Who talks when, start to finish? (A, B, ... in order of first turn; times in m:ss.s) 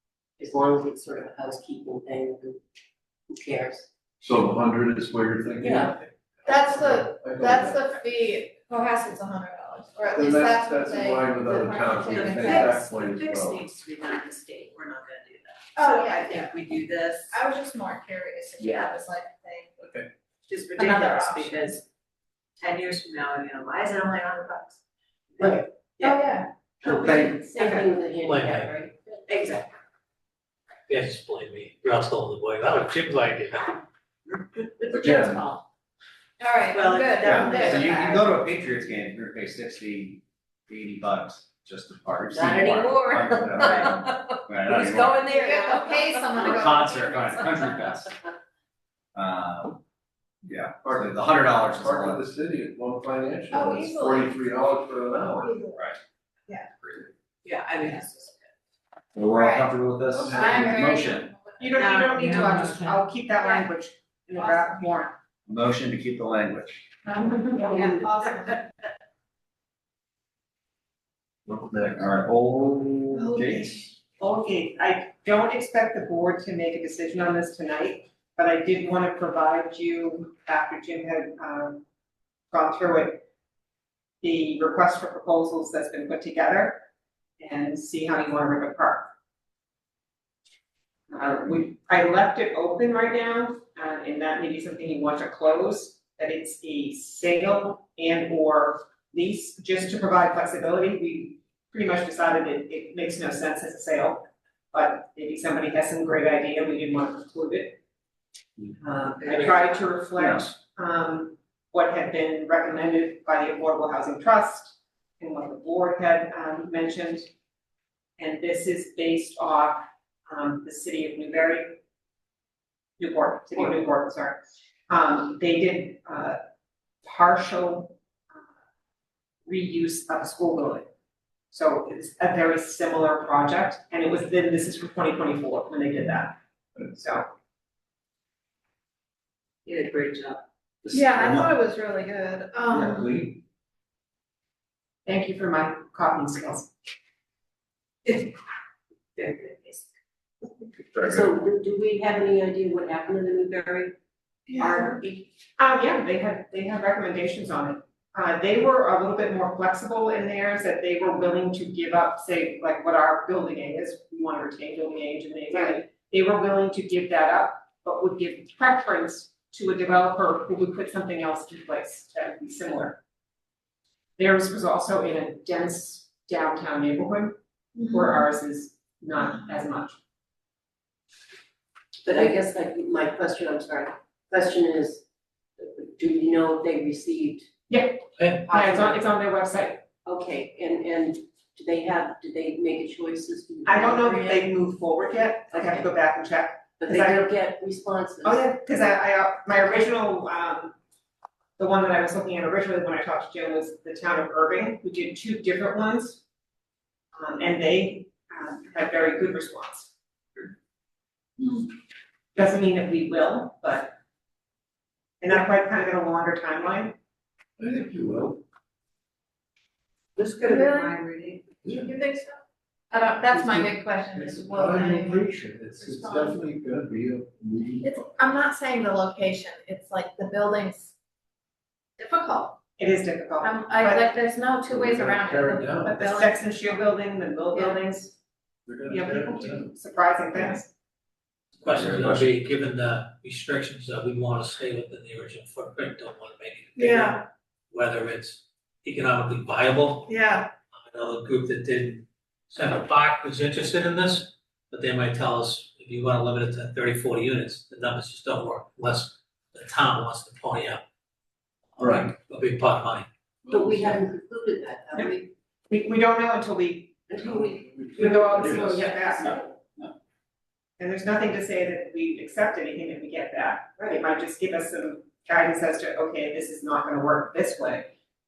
0:00.4-0:02.6 A
0:03.3-0:03.9 A
0:04.2-0:07.8 B
0:05.6-0:05.9 A
0:06.5-0:12.8 C
0:10.1-0:13.7 B
0:12.1-0:17.4 D
0:15.8-0:16.5 C
0:17.3-0:19.7 C
0:20.5-0:21.8 D
0:20.8-0:21.8 C
0:22.6-0:24.8 D
0:26.0-0:26.5 C
0:26.8-0:29.0 A
0:26.9-0:27.4 E
0:27.5-0:27.8 C
0:28.2-0:28.7 F
0:29.3-0:29.6 D
0:30.9-0:33.8 F
0:34.9-0:35.3 D
0:34.9-0:35.3 A
0:34.9-0:35.4 B
0:36.4-0:38.3 C
0:36.8-0:37.6 D
0:36.9-0:38.0 A
0:37.2-0:45.3 E
0:42.3-0:46.6 A
0:43.6-0:44.0 D
0:45.2-0:47.7 C
0:46.3-0:48.1 E
0:49.1-0:49.8 E
0:50.4-0:52.2 E
0:50.8-0:55.6 B
0:53.5-0:54.4 C
0:55.4-0:55.9 C
0:57.5-0:57.7 D
0:57.8-0:58.1 A
0:59.2-1:01.3 E
0:59.3-0:59.7 C
1:00.1-1:00.7 B
1:00.3-1:01.8 C
1:01.6-1:05.2 G
1:01.8-1:03.0 D
1:03.4-1:03.7 C
1:05.5-1:06.8 E
1:07.0-1:08.6 C
1:11.5-1:14.0 E
1:13.2-1:13.5 C
1:13.3-1:21.8 G
1:22.5-1:23.2 G
1:24.2-1:26.9 G
1:27.4-1:29.1 G
1:31.1-1:47.8 G
1:48.8-1:57.3 G
1:49.3-1:49.6 A
1:50.2-1:50.5 E
1:58.2-2:01.8 G
2:03.0-2:06.4 G
2:07.0-2:08.0 G
2:09.5-2:10.8 G
2:11.5-2:17.3 G
2:19.7-2:20.4 D
2:20.9-2:21.5 E
2:20.9-2:23.1 C
2:22.7-2:23.4 E
2:25.1-2:26.7 G
2:29.2-2:29.8 A
2:31.0-2:34.0 A
2:34.5-2:35.0 G
2:34.5-2:35.2 A
2:35.6-2:53.0 G
2:54.2-2:57.4 G
2:57.8-2:58.3 C
2:57.9-3:00.0 G
3:02.0-3:05.0 A
3:05.6-3:07.5 A
3:07.7-3:09.9 G
3:08.4-3:09.0 A
3:10.0-3:14.5 A
3:13.6-3:17.3 G
3:15.5-3:15.9 A
3:16.8-3:18.5 A
3:18.2-3:20.8 G
3:21.6-3:26.2 G
3:27.1-3:30.5 G
3:32.4-3:34.0 G
3:35.2-3:37.0 G
3:37.6-3:38.4 B
3:40.2-3:41.7 D
3:40.5-3:41.0 C
3:41.7-3:42.4 C
3:42.9-3:46.4 C
3:43.3-3:48.1 B
3:47.8-3:50.9 C
3:52.0-3:52.6 C
3:52.8-3:54.1 G
3:53.4-3:56.8 C
3:54.7-3:56.0 B
3:55.9-3:58.2 G
3:57.5-3:57.8 C
3:58.7-3:59.7 B
3:58.9-4:00.7 G
4:01.6-4:10.1 F
4:01.7-4:02.3 E
4:06.8-4:07.2 C
4:10.1-4:10.5 C
4:10.8-4:20.8 F
4:21.8-4:22.1 B
4:21.8-4:23.1 F
4:23.4-4:24.0 B
4:23.5-4:25.3 A
4:25.7-4:27.0 G
4:27.1-4:29.6 A
4:27.2-4:28.8 B
4:28.0-4:29.4 G
4:29.3-4:29.9 E
4:30.8-4:37.9 G
4:33.8-4:34.0 A